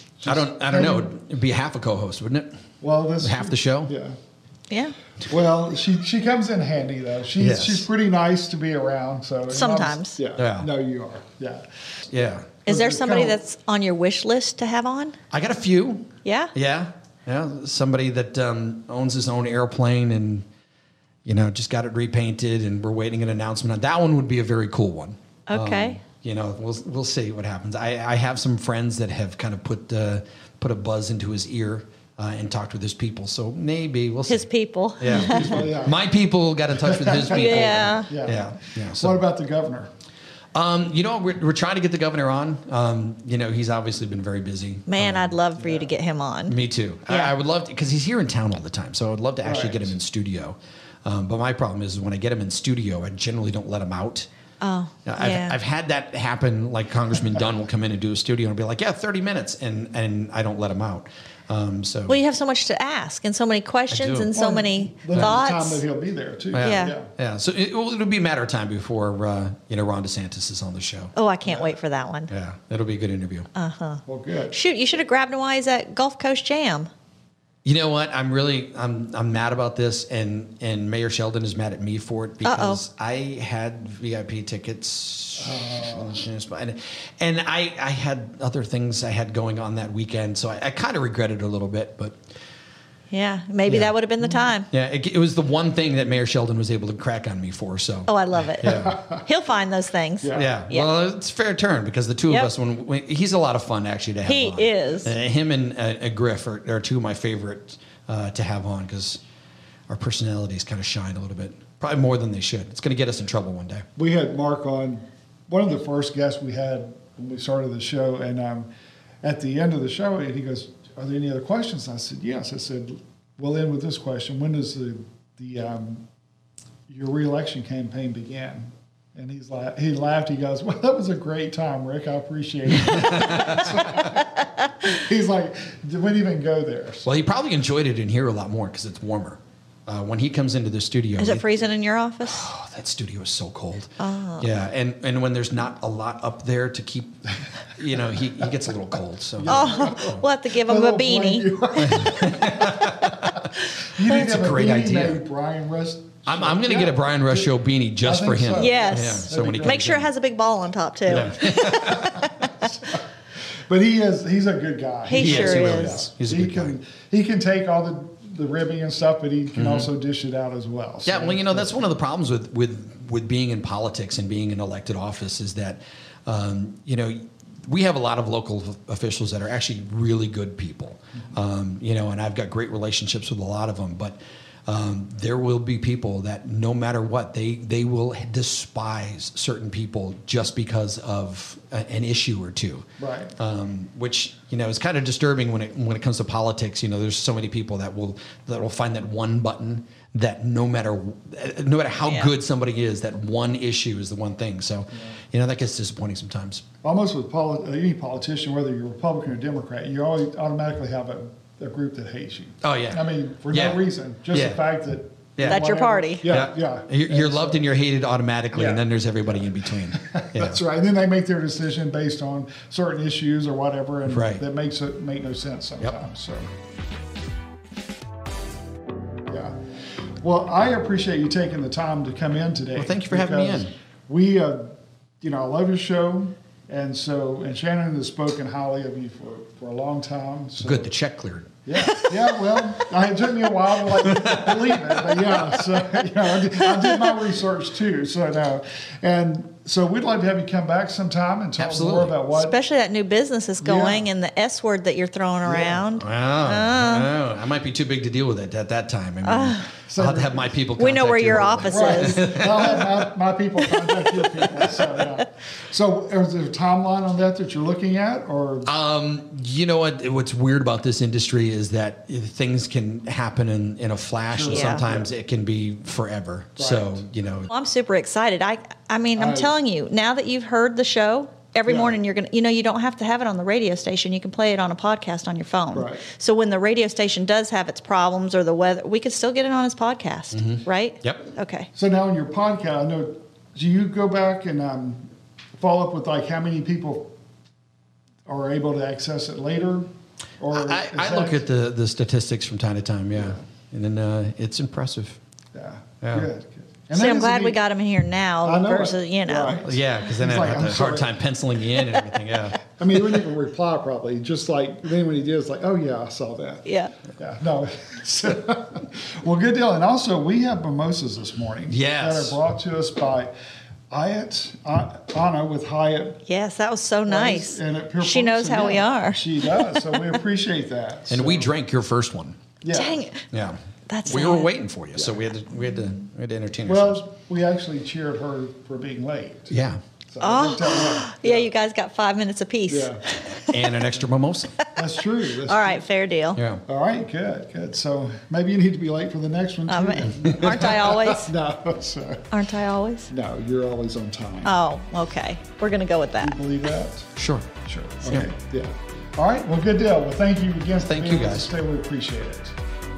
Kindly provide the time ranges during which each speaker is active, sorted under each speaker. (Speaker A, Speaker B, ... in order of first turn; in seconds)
Speaker A: 0.2-1.1, 2.8-4.2, 5.3-11.7, 12.7-13.4, 35.1-36.0, 36.8-39.9, 45.6-45.9, 49.4-50.0, 64.3-67.1, 71.5-71.7, 74.1-74.6, 85.4-86.2, 98.7-99.2, 100.2-100.5, 114.0-118.7, 119.2-126.0, 126.9-137.1, 149.4-159.9, 161.2-162.7, 163.7-171.8, 193.0-193.4, 206.8-217.6, 218.5-218.8, 219.9-226.5, 229.3-229.6, 230.2-240.9, 241.7-252.6, 253.6-254.1, 255.4-255.9, 259.9-260.6, 261.7-268.7, 274.3-275.1, 276.6-277.0, 279.2-279.5, 281.7-282.0, 285.7-286.0, 291.8-297.1, 298.3-299.9, 300.4-301.5, 303.1-303.4, 305.5-307.6, 308.4-311.1, 312.6-316.6, 317.2-323.3, 323.9-326.2, 327.1-331.5, 332.6-333.1, 336.7-339.5, 340.1-341.5, 342.7-343.0, 344.8-345.9, 346.7-352.3, 353.1-354.6, 356.2-357.1, 357.6-362.6
Speaker B: 0.3-2.6, 3.2-3.9, 7.4-7.9, 10.4-10.7, 12.1-12.6, 15.3-20.5, 21.2-34.5, 35.0-39.2, 40.5-45.4, 46.5-54.3, 55.1-62.2, 63.9-64.3, 66.5-71.1, 72.3-73.5, 77.6-92.2, 93.7-93.9, 94.7-99.0, 100.3-109.2, 109.9-113.9, 132.8-134.1, 137.1-141.5, 142.2-147.2, 147.7-150.2, 151.8-153.4, 154.0-155.2, 156.3-160.1, 161.1-162.2, 165.1-166.8, 169.5-169.9, 171.1-206.6, 212.6-214.6, 215.4-215.7, 216.2-220.6, 224.1-224.4, 232.7-233.7, 240.6-241.5, 243.9-245.4, 251.6-252.2, 256.0-263.1, 263.7-264.6, 268.7-277.5, 290.3-291.3, 300.5-305.2, 306.0-306.3, 309.6-313.3, 321.7-322.4, 331.1-332.4, 333.3-337.0, 339.5-339.8, 343.5-344.5, 346.4-346.6, 350.2-350.7, 357.2-357.5, 358.0-358.3, 360.8-361.5
Speaker C: 4.7-5.0, 9.5-10.2, 12.7-15.2, 16.2-16.5, 25.5-26.0, 34.3-35.6, 37.3-38.1, 44.9-46.6, 54.6-55.6, 62.1-65.8, 66.6-67.0, 71.2-72.3, 73.5-76.9, 82.4-82.8, 93.1-94.7, 98.1-100.9, 104.2-105.1, 141.2-142.5, 144.0-144.5, 149.5-152.1, 158.5-162.7, 165.1-166.0, 215.4-216.5, 252.3-257.1, 259.2-259.7, 260.8-262.6, 274.5-274.8, 277.5-291.7, 306.9-309.6, 316.6-316.9, 326.3-330.2, 332.7-333.2, 333.9-334.5, 340.2-343.7, 345.4-346.4, 349.7-351.3, 352.3-353.1, 354.4-356.4